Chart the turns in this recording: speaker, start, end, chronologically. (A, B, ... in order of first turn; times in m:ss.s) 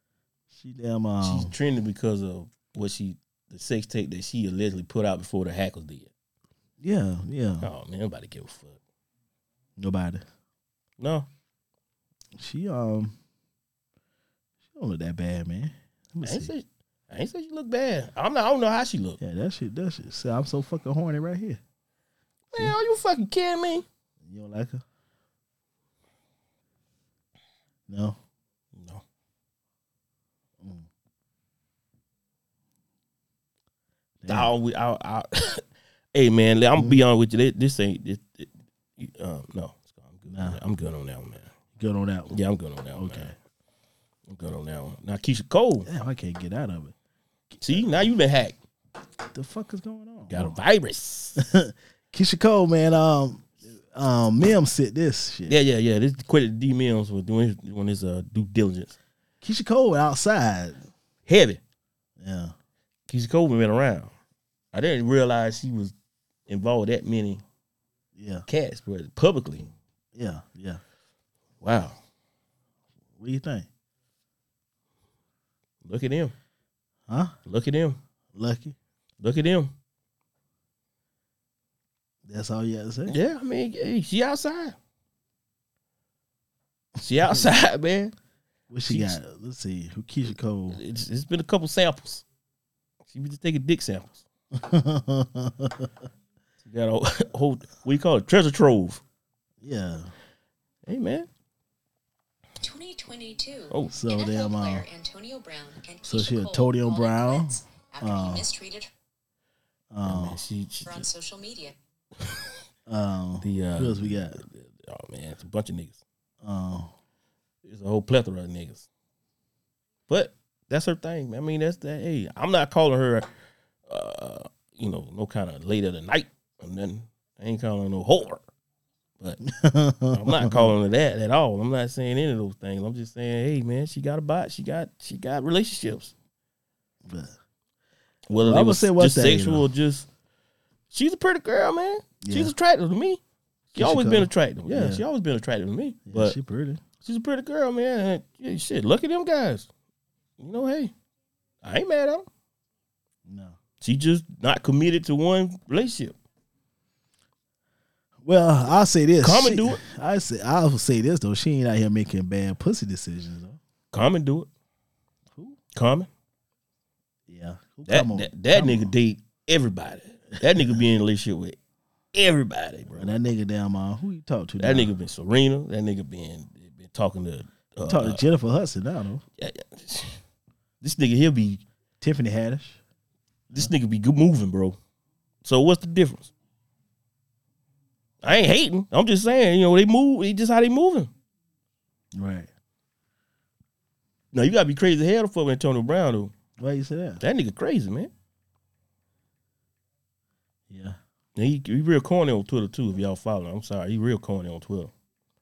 0:00.5-0:01.5 A
0:01.2-0:06.1 B
0:06.8-0:07.7 A
0:07.6-0:08.8 B
0:09.8-0:10.2 A
0:11.0-0:11.3 B
0:12.4-0:13.1 A
0:14.7-0:16.5 A
0:16.2-0:19.2 B
0:19.2-0:21.6 A
0:22.5-0:23.8 B
0:24.2-0:24.8 A
0:27.9-0:28.2 A
0:28.8-0:29.0 B
0:34.2-0:34.5 A
0:34.3-0:35.6 B
0:36.1-0:41.5 B
0:40.3-0:40.6 A
0:41.8-0:42.4 A
0:42.3-0:43.3 B
0:43.0-0:43.3 A
0:44.3-0:45.9 B
0:45.8-0:46.9 A
0:47.6-0:48.6 B
0:49.3-0:50.6 A
0:50.3-0:51.4 B
0:51.4-0:55.6 A
0:55.5-0:58.9 B
0:59.4-1:00.8 A
1:01.2-1:01.6 B
1:02.2-1:02.5 A
1:03.1-1:04.1 B
1:04.7-1:05.9 B
1:06.5-1:07.4 B
1:08.2-1:08.4 A
1:08.5-1:09.7 B
1:10.2-1:10.8 A
1:11.6-1:12.0 B
1:13.2-1:13.7 A
1:15.8-1:16.3 B
1:17.1-1:17.3 A
1:17.4-1:18.0 B
1:18.3-1:18.7 A
1:19.2-1:19.7 B
1:22.2-1:23.2 A
1:23.1-1:24.8 B
1:27.0-1:28.1 B
1:28.7-1:30.8 A
1:28.9-1:29.2 B
1:30.7-1:32.2 B
1:33.1-1:34.2 B
1:34.5-1:35.9 A
1:36.6-1:39.0 B
1:39.6-1:40.1 A
1:40.8-1:41.3 B
1:42.6-1:48.9 C
1:43.9-1:44.9 A
1:46.0-1:48.4 A
1:49.9-1:50.4 A
1:50.0-1:51.1 B
1:50.8-1:51.7 C
1:52.9-1:54.4 A
1:53.4-1:56.0 B
1:56.4-1:56.9 A
1:57.6-1:58.8 B
2:00.1-2:03.3 B
2:03.9-2:08.4 B
2:09.4-2:10.7 A
2:10.1-2:16.1 B
2:17.0-2:17.4 A
2:18.3-2:20.1 B
2:18.4-2:19.6 A
2:20.9-2:23.2 B
2:22.2-2:22.5 A
2:23.7-2:25.0 A
2:23.7-2:26.4 B
2:26.1-2:26.8 A
2:27.0-2:29.7 B
2:30.4-2:30.9 B
2:31.6-2:32.2 B
2:33.3-2:33.5 A
2:33.8-2:36.1 B
2:38.2-2:43.6 A
2:39.2-2:39.8 B
2:43.9-2:44.5 B
2:45.7-2:46.1 B
2:47.3-2:48.9 A
2:47.9-2:51.6 B
2:52.1-2:53.1 B
2:52.9-2:54.9 A
2:54.6-2:58.2 B
2:57.8-2:59.2 A
2:59.4-3:00.2 B
3:00.8-3:01.6 B
3:02.0-3:02.8 A
3:03.5-3:04.8 B
3:05.4-3:06.3 B
3:08.2-3:11.1 B
3:12.1-3:12.5 A
3:14.3-3:16.3 B
3:16.6-3:17.2 A
3:17.2-3:18.1 B
3:20.7-3:21.0 A
3:21.4-3:24.9 B